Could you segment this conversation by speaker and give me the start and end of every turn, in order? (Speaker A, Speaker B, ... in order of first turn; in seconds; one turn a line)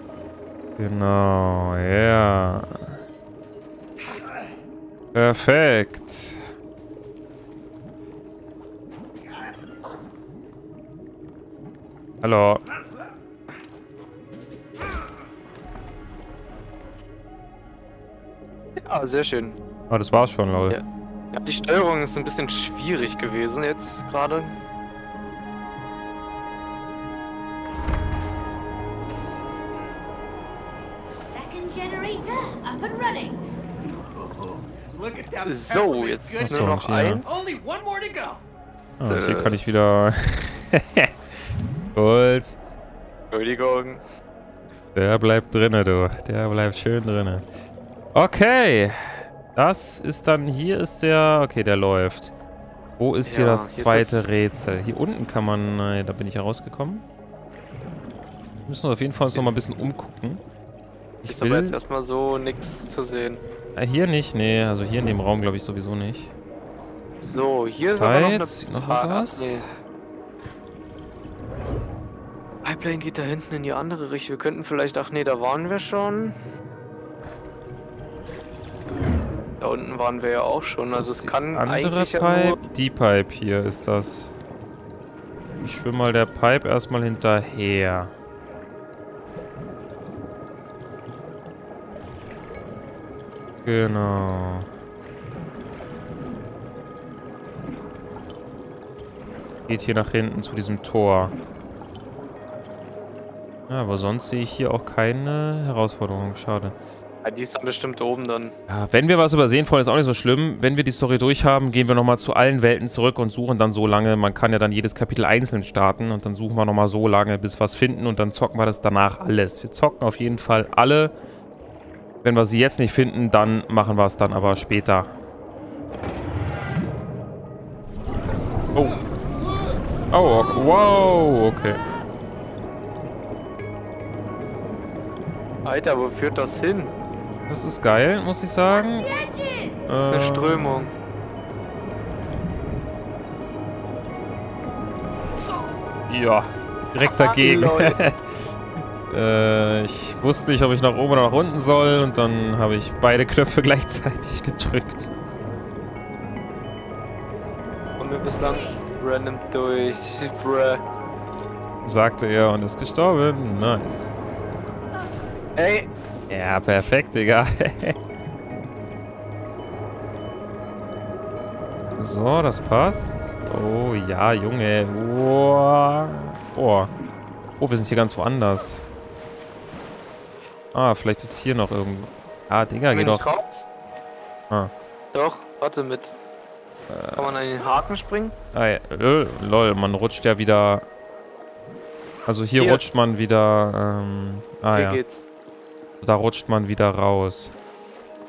Speaker A: 0.8-3.0
Speaker A: 5.1-6.4
Speaker A: 12.2-12.6
Speaker B: 18.8-19.6
Speaker A: 19.9-20.8
Speaker B: 20.7-24.6
Speaker C: 31.2-33.4
Speaker D: 33.9-38.4
Speaker B: 35.5-37.2
Speaker A: 36.4-37.3
Speaker A: 39.0-41.3
Speaker D: 39.1-39.5
Speaker A: 41.9-42.6
Speaker B: 43.3-44.0
Speaker A: 44.9-47.4
Speaker A: 48.1-52.3
Speaker A: 53.0-57.0
Speaker B: 53.2-54.3
Speaker A: 58.6-60.4
Speaker A: 61.2-61.8
Speaker B: 61.3-63.4
Speaker A: 63.7-66.3
Speaker B: 67.2-69.6
Speaker A: 67.8-69.6
Speaker B: 72.6-76.3
Speaker B: 79.6-82.6
Speaker A: 81.0-84.3
Speaker A: 85.6-88.1
Speaker A: 93.6-94.7
Speaker A: 99.7-101.3
Speaker A: 103.7-106.8
Speaker B: 107.2-108.5
Speaker A: 108.7-121.1
Speaker A: 122.2-125.1
Speaker A: 128.7-129.0
Speaker A: 130.1-131.8
Speaker B: 135.6-136.9
Speaker A: 137.5-139.1
Speaker C: 138.7-139.9
Speaker A: 139.9-140.9
Speaker B: 139.9-140.9
Speaker A: 146.1-148.2
Speaker B: 147.0-148.0
Speaker A: 149.1-155.1
Speaker B: 158.0-160.8
Speaker A: 161.8-164.1
Speaker B: 165.6-165.9
Speaker A: 166.3-168.0
Speaker A: 172.0-176.9
Speaker A: 177.6-178.8
Speaker A: 180.7-183.3
Speaker B: 182.9-183.7
Speaker B: 185.1-186.1
Speaker A: 186.9-187.3
Speaker B: 187.2-188.3
Speaker A: 188.5-190.8
Speaker A: 192.3-195.0
Speaker B: 192.6-192.8
Speaker B: 194.7-195.2
Speaker A: 196.0-197.5